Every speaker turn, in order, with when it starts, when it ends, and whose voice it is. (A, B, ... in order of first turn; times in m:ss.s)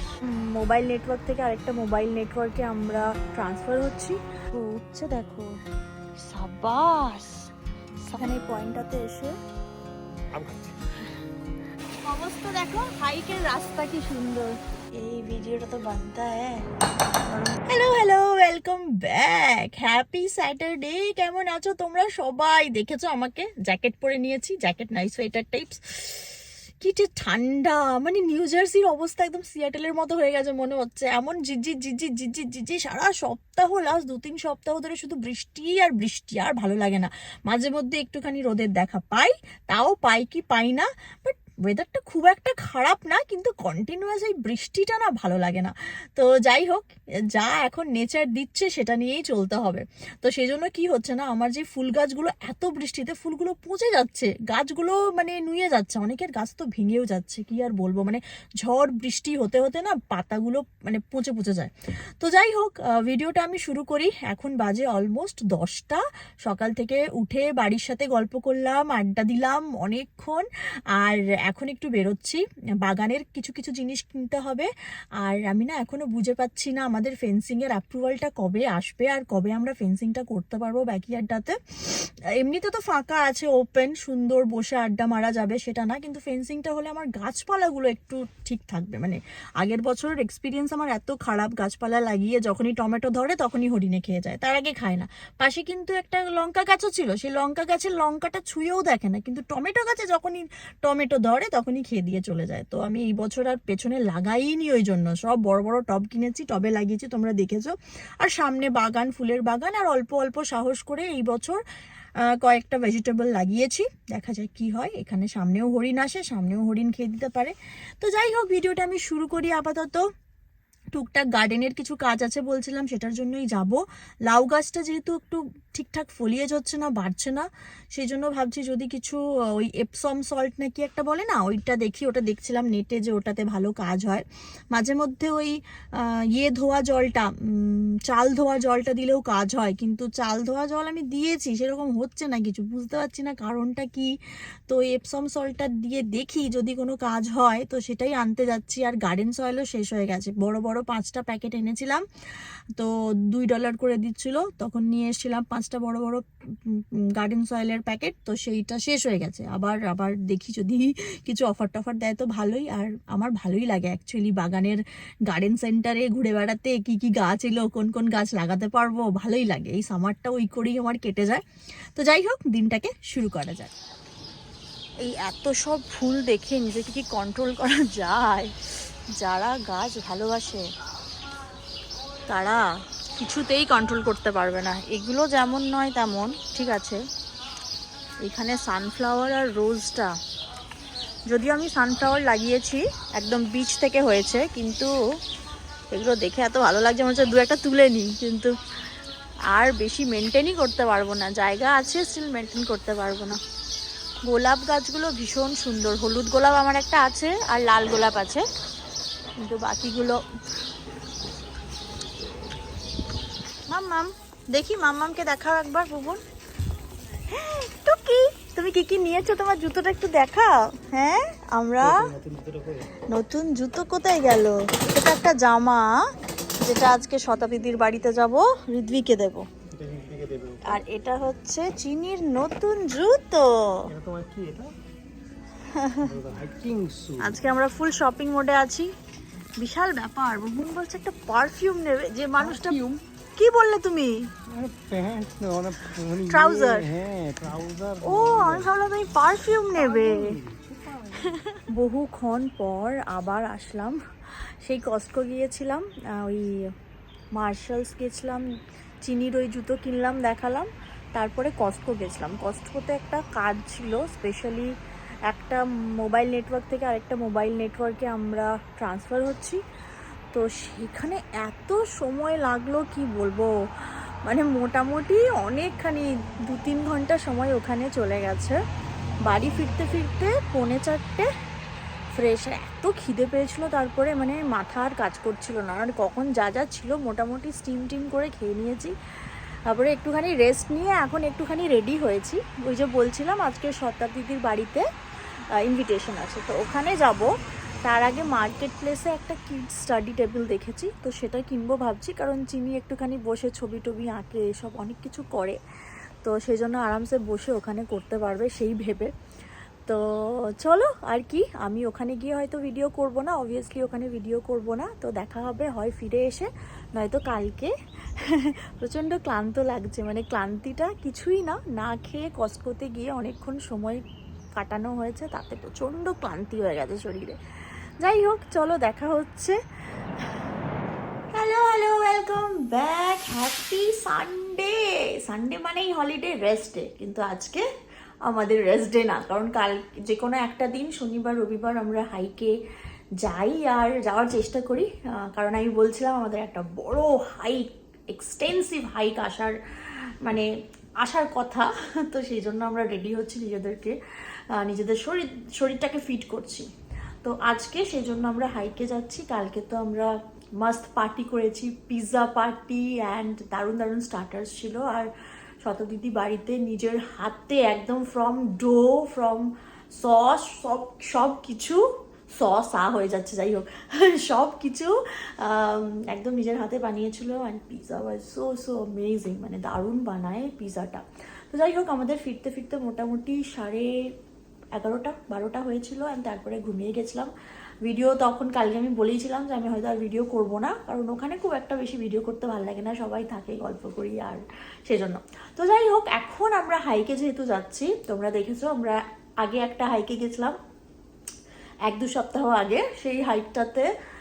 0:00.2-0:05.5 A
0:06.3-0:07.3 A
0:08.0-0:09.3 A
0:10.3-0:10.8 B
0:12.0-0:16.6 A
0:17.2-1:14.7 A
1:15.2-1:51.6 A
1:52.2-2:00.0 A
2:00.9-2:24.1 A
2:24.7-2:32.0 A
2:32.7-2:51.4 A
2:51.9-2:53.7 A
2:55.0-3:00.6 A
3:02.3-3:02.6 A
3:03.2-3:07.0 A
3:08.2-3:10.1 A
3:11.3-3:14.9 A
3:15.9-3:18.5 A
3:19.5-3:23.4 A
3:24.2-3:28.4 A
3:29.4-3:30.2 A
3:33.7-3:36.2 A
3:37.3-3:42.0 A
3:41.8-3:42.9 B
3:43.1-3:45.9 A
3:46.6-3:49.4 A
3:49.7-3:50.8 B
3:50.6-3:53.5 A
3:53.9-3:54.7 B
3:55.7-3:56.1 A
3:56.0-3:57.5 B
3:57.2-3:58.9 A
3:59.6-4:02.8 A
4:03.4-4:04.2 A
4:04.5-4:08.7 B
4:06.1-4:06.9 A
4:08.0-4:10.3 A
4:09.8-4:11.0 B
4:11.7-4:14.0 A
4:14.6-4:16.5 A
4:17.3-4:18.4 A
4:19.0-4:24.7 A
4:25.3-4:29.6 A
4:30.3-4:33.5 A
4:34.2-4:38.6 A
4:39.2-4:41.3 A
4:42.1-4:48.9 A
4:49.7-4:54.8 A
4:55.6-4:57.3 A
4:57.8-5:05.6 A
5:06.2-5:09.1 A
5:10.6-5:24.0 A
5:24.6-5:27.4 A
5:28.0-5:29.6 A
5:31.3-5:37.6 A
5:38.2-5:42.5 A
5:43.2-5:54.0 A
5:54.5-5:56.7 A
5:57.2-6:05.1 A
6:05.6-6:24.1 A
6:24.8-6:27.3 A
6:27.8-6:40.6 A
6:41.8-6:43.9 A